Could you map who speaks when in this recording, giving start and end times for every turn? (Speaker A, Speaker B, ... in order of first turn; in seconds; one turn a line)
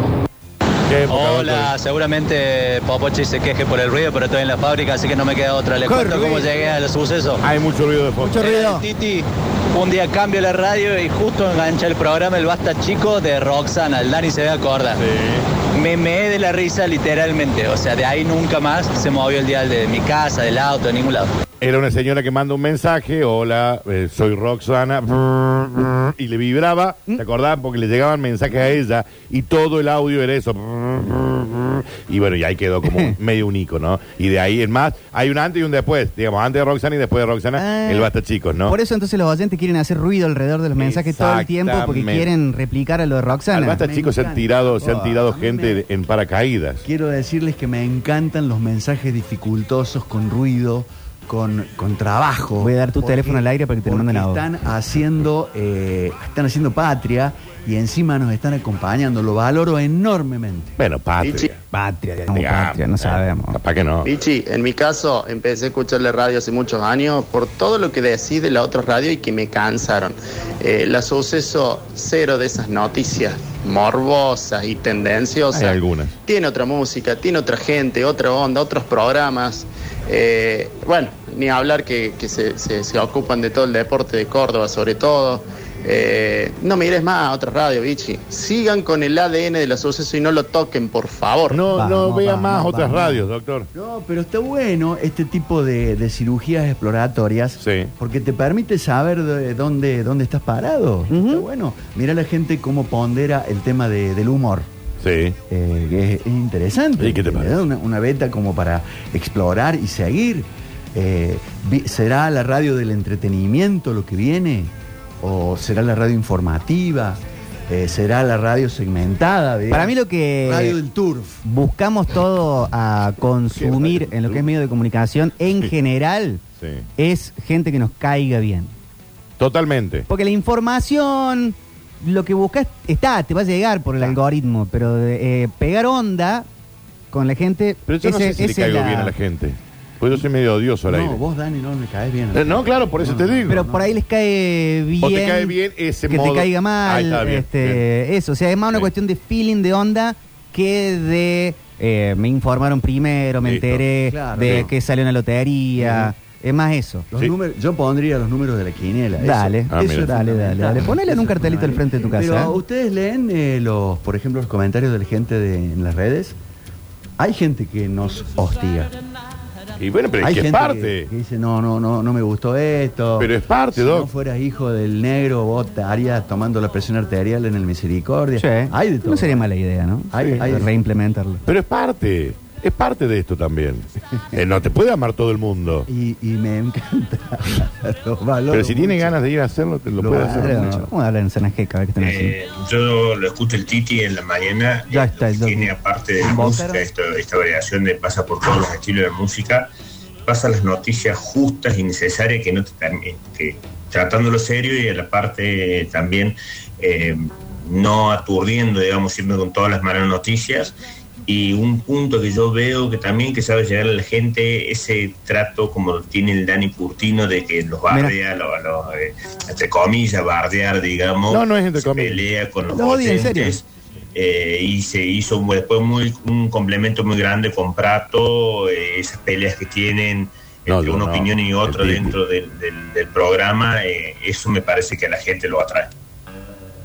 Speaker A: 0.9-1.7
Speaker B: 1.1-7.4
Speaker C: 5.8-6.5
Speaker A: 7.4-8.5
Speaker C: 8.2-8.8
Speaker B: 8.4-15.0
Speaker A: 15.0-15.4
Speaker B: 15.7-21.3
Speaker A: 21.6-38.8
Speaker C: 32.8-33.1
Speaker C: 37.6-38.1
Speaker C: 38.6-43.8
Speaker A: 40.8-42.3
Speaker A: 43.5-46.8
Speaker D: 43.6-45.8
Speaker D: 46.8-60.8
Speaker C: 52.6-54.5
Speaker A: 60.8-61.6
Speaker C: 61.7-63.6
Speaker A: 62.3-64.1
Speaker E: 64.0-91.6
Speaker A: 75.5-76.1
Speaker A: 91.5-93.7
Speaker C: 91.7-93.2
Speaker D: 93.7-104.7
Speaker A: 97.6-97.9
Speaker C: 101.1-101.4
Speaker A: 105.0-105.4
Speaker D: 105.5-121.4
Speaker A: 107.0-107.5
Speaker C: 119.7-120.8
Speaker C: 121.4-126.4
Speaker A: 123.5-124.5
Speaker C: 127.0-128.7
Speaker A: 129.4-130.1
Speaker C: 130.1-136.4
Speaker C: 137.1-139.1
Speaker A: 137.9-141.2
Speaker D: 140.8-143.9
Speaker A: 142.3-143.6
Speaker C: 143.5-145.5
Speaker A: 145.0-147.8
Speaker C: 146.1-157.1
Speaker A: 153.4-153.8
Speaker D: 154.1-154.7
Speaker A: 154.4-154.7
Speaker D: 155.8-156.1
Speaker D: 157.1-166.3
Speaker C: 159.2-162.6
Speaker A: 159.7-160.1
Speaker D: 167.2-168.9
Speaker A: 169.8-171.1
Speaker D: 170.2-179.5
Speaker A: 173.2-174.1
Speaker C: 178.4-181.4
Speaker D: 180.1-180.7
Speaker A: 180.2-180.4
Speaker A: 181.4-185.9
Speaker D: 185.9-189.2
Speaker A: 188.5-190.7
Speaker D: 190.0-190.9
Speaker C: 190.2-192.3
Speaker F: 192.0-199.7
Speaker C: 194.9-195.7
Speaker C: 196.2-196.8
Speaker F: 200.2-210.7
Speaker F: 211.3-235.9
Speaker A: 221.3-222.2
Speaker C: 222.7-223.6
Speaker A: 230.7-232.2